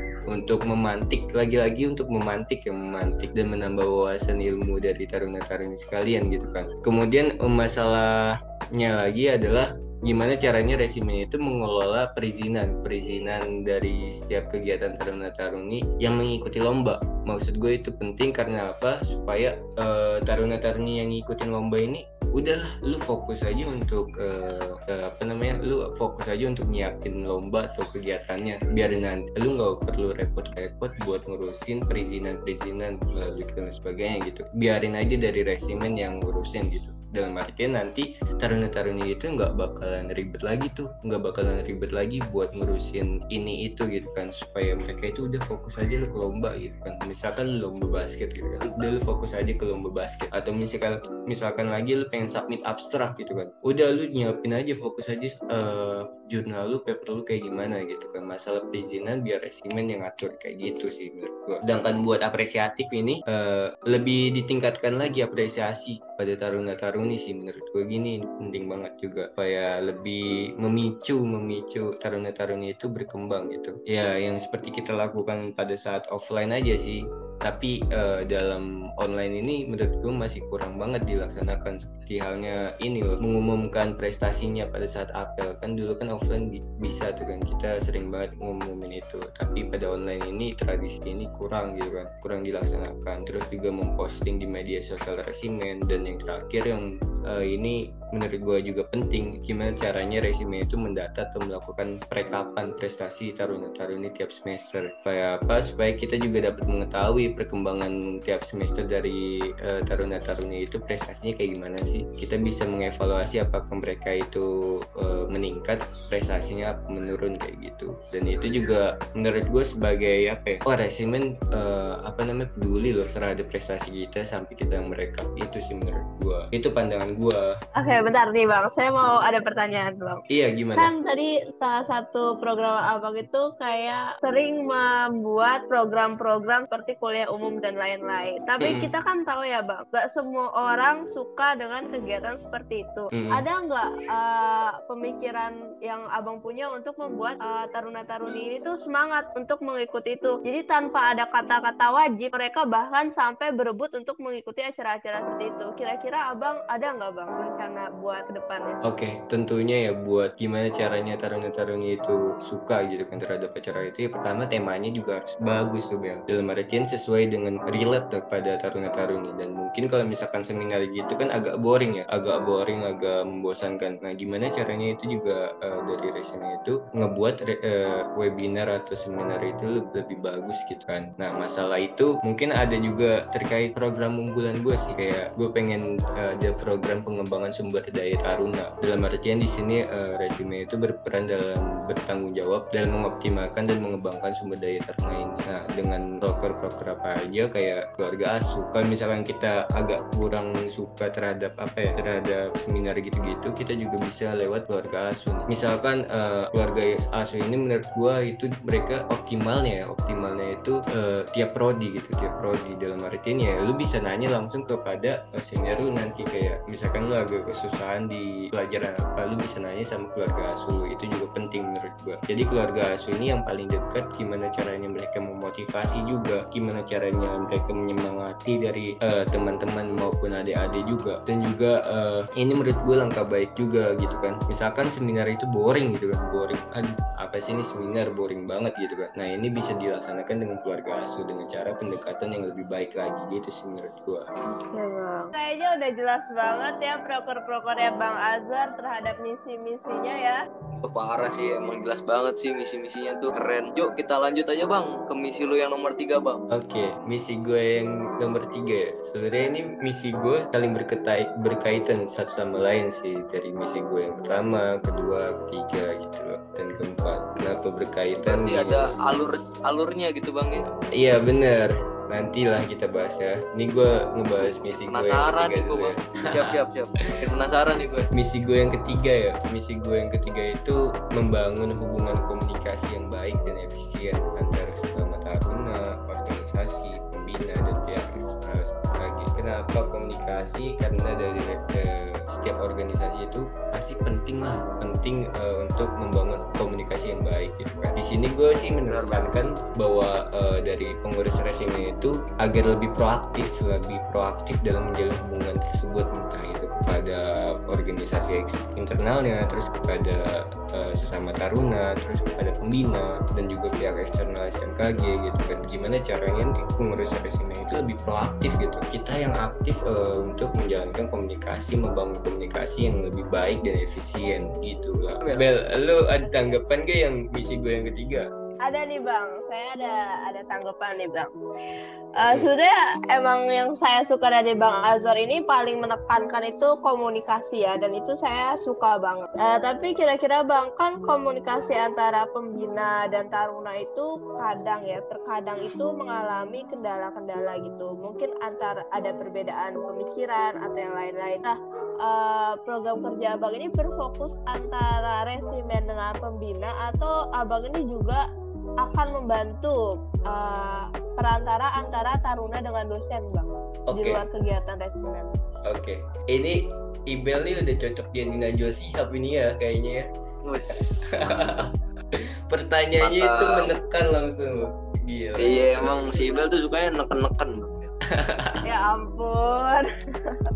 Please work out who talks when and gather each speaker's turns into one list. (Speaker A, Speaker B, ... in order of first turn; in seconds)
Speaker A: 0.3-127.5, 130.3-130.9, 138.6-138.9, 143.1-143.4, 158.8-244.3, 256.5-268.9, 270.9-276.6, 278.1-328.3, 363.9-364.2, 365.6-370.1, 371.1-376.3, 378.1-378.7
Speaker B: 48.6-48.9, 250.8-256.4, 268.2-270.7, 274.6-278.1, 298.9-299.3, 370.4-371.6, 373.0-373.7, 375.4-377.9
Speaker C: 127.8-130.2, 130.8-158.8, 244.6-250.4, 328.6-331.3, 332.2-358.2, 358.8-365.3, 378.6-380.4